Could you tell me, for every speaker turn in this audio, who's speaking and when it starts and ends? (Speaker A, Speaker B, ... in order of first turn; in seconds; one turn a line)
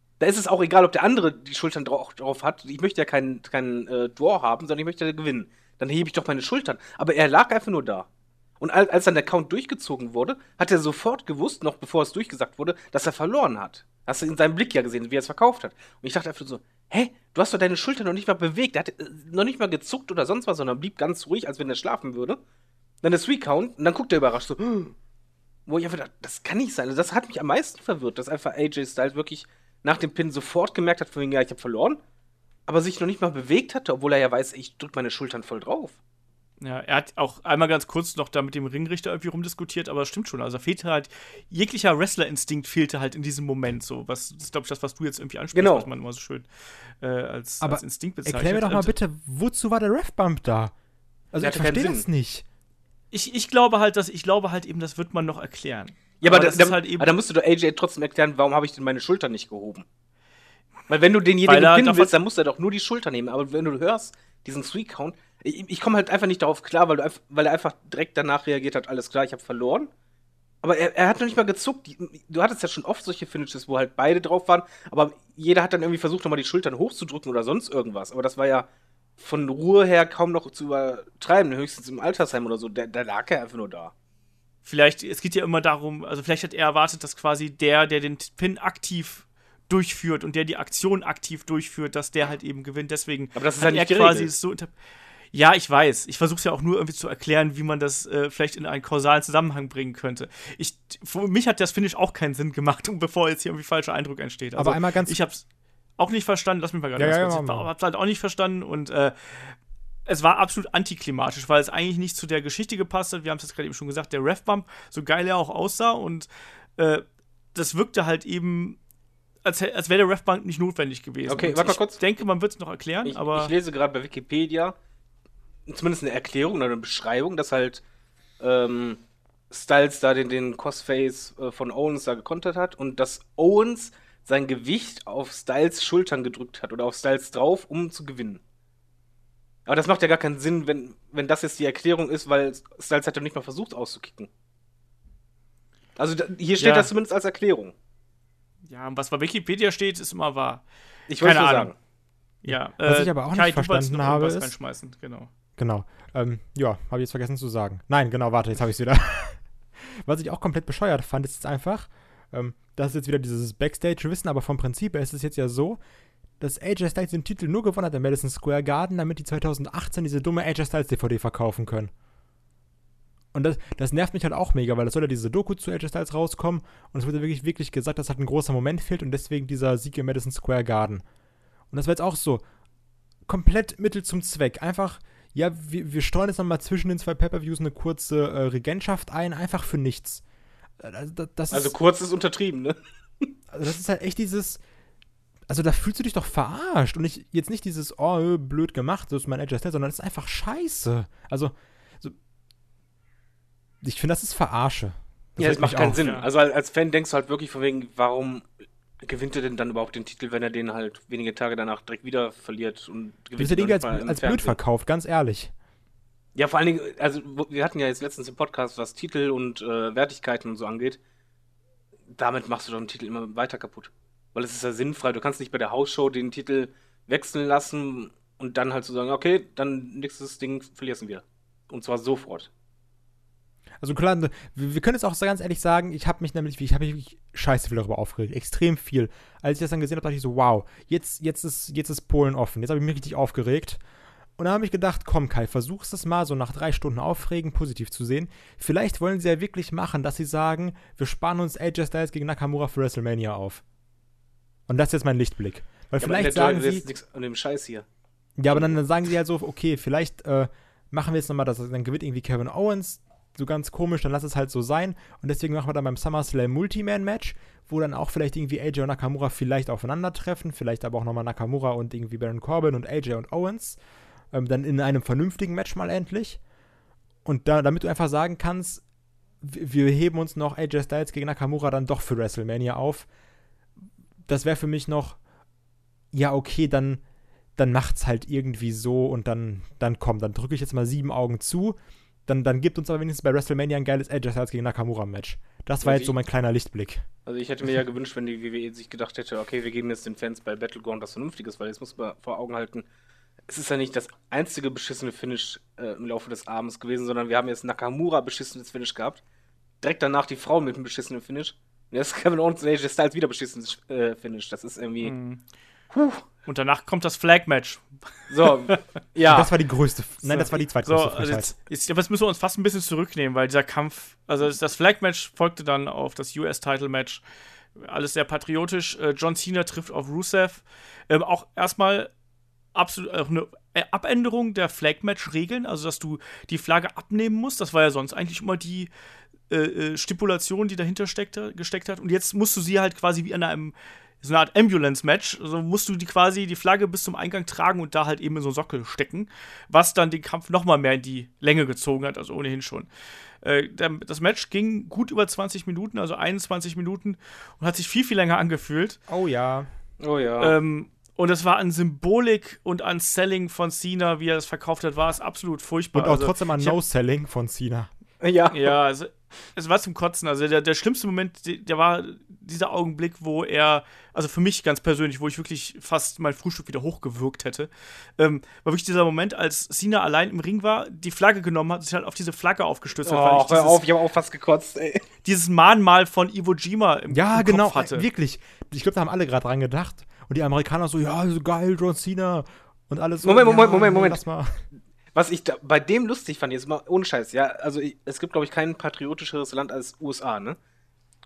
Speaker A: 0.2-8.1
Speaker A: 8.6-22.4
Speaker A: 23.0-24.9
Speaker A: 25.7-32.0
Speaker A: 32.7-36.0
Speaker B: 36.6-48.9
Speaker A: 45.5-45.9
Speaker C: 47.6-50.7
Speaker C: 51.3-52.4
Speaker A: 51.4-52.0
Speaker B: 53.1-57.1
Speaker A: 56.2-59.8
Speaker A: 60.9-69.9
Speaker B: 61.5-62.1
Speaker A: 70.6-78.7
Speaker A: 79.2-83.9
Speaker B: 84.6-94.7
Speaker A: 93.3-94.3
Speaker B: 95.3-105.4
Speaker C: 104.6-105.2
Speaker B: 106.0-109.5
Speaker C: 107.0-107.7
Speaker B: 110.0-118.8
Speaker B: 119.4-123.5
Speaker A: 121.3-122.0
Speaker A: 123.0-124.7
Speaker A: 125.7-127.8
Speaker A: 128.4-138.4
Speaker A: 139.7-144.3
Speaker A: 145.9-147.7
Speaker B: 146.6-146.9
Speaker B: 148.7-150.6
Speaker A: 151.1-151.7
Speaker B: 151.2-151.7
Speaker B: 152.4-155.3
Speaker C: 152.4-154.5
Speaker C: 155.6-165.8
Speaker C: 166.4-171.9
Speaker C: 173.3-181.0
Speaker C: 181.7-182.4
Speaker C: 183.3-190.2
Speaker C: 190.8-191.7
Speaker A: 191.5-192.8
Speaker C: 193.5-194.6
Speaker C: 195.5-202.2
Speaker C: 203.8-206.0
Speaker A: 205.4-208.4
Speaker B: 206.0-206.3
Speaker A: 209.0-214.6
Speaker C: 213.4-215.5
Speaker A: 216.3-221.0
Speaker A: 222.1-232.5
Speaker C: 233.8-243.8
Speaker C: 244.4-253.6
Speaker C: 254.7-256.8
Speaker A: 256.0-257.8
Speaker C: 258.4-273.8
Speaker C: 274.3-276.4
Speaker C: 277.2-278.8
Speaker C: 279.4-283.1
Speaker C: 284.2-285.2
Speaker C: 286.1-287.0
Speaker C: 287.6-297.0
Speaker A: 295.8-296.1
Speaker A: 297.2-302.9
Speaker A: 303.5-309.2
Speaker A: 309.8-315.1
Speaker B: 315.0-315.4
Speaker A: 315.9-316.2
Speaker B: 316.4-318.8
Speaker A: 318.3-319.5
Speaker C: 319.3-321.5
Speaker B: 320.2-327.2
Speaker B: 327.8-332.1
Speaker B: 332.7-338.9
Speaker B: 339.5-352.9
Speaker B: 353.4-359.0
Speaker C: 359.1-359.7
Speaker A: 360.0-360.5
Speaker B: 360.4-366.8
Speaker C: 365.9-367.9
Speaker A: 368.2-368.8
Speaker B: 368.5-383.8
Speaker A: 383.0-385.0
Speaker B: 385.2-388.1
Speaker C: 387.1-394.6
Speaker A: 393.2-394.2
Speaker A: 395.1-400.6